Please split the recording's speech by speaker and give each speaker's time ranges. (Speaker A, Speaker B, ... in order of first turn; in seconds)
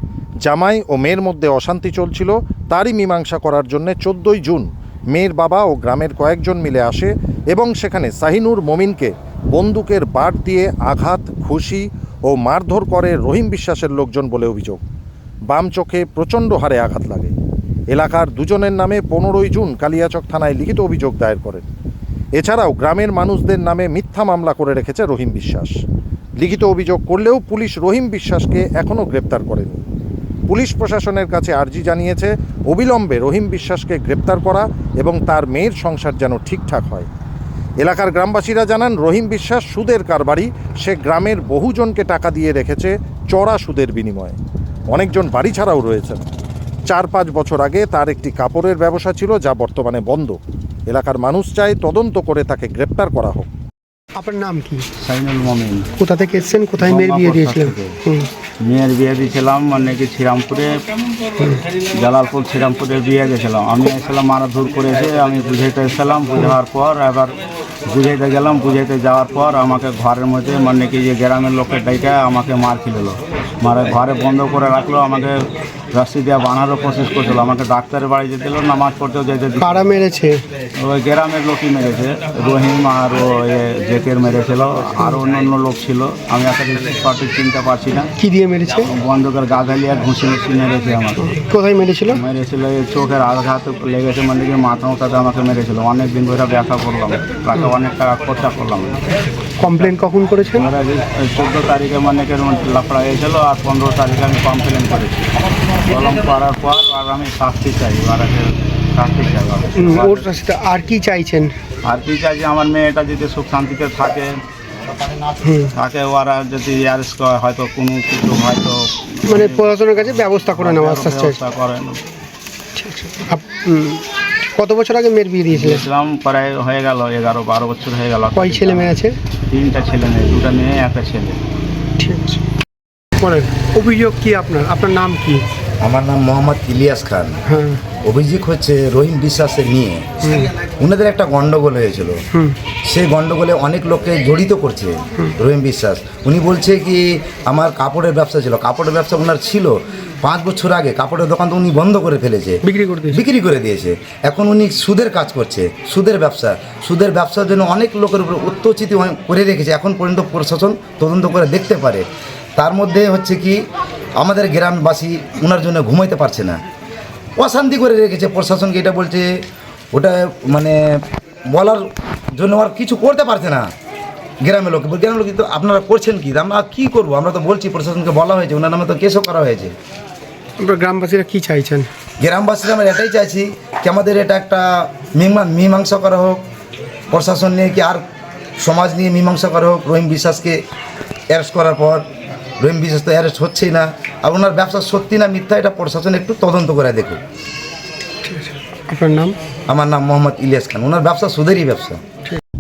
Speaker A: 0.5-14.8, 15.5-17.3, 17.9-21.7, 22.4-25.8, 26.4-29.8, 30.5-37.1, 37.8-44.4, 44.9-46.3, 46.9-53.5
Speaker B: 54.1-54.9, 56.0-58.3, 79.6-80.4, 88.2-88.9, 91.2-92.2, 99.6-100.7, 109.8-111.5, 115.4-115.7, 119.3-121.4, 122.8-125.8, 128.4-129.2, 132.0-132.4, 133.2-135.4, 137.5-137.8, 140.2-140.5, 142.3-142.6, 152.7-153.2, 180.6-181.9, 198.2-199.4
Speaker C: 55.0-55.9, 56.8-58.0, 58.6-60.8, 61.8-79.9, 80.8-88.1, 88.9-91.4, 92.1-99.9, 100.5-110.3, 111.8-114.4, 115.7-122.0, 125.5-131.4
Speaker D: 135.8-137.4, 138.0-140.1, 140.8-142.2, 142.9-162.1, 162.6-163.6, 164.2-166.6, 167.4-169.3, 169.9-170.8, 171.5-173.7, 174.4-179.8, 182.2-186.4, 187.1-188.0, 188.6-190.6, 191.3-192.1, 192.6-197.2, 199.7-202.0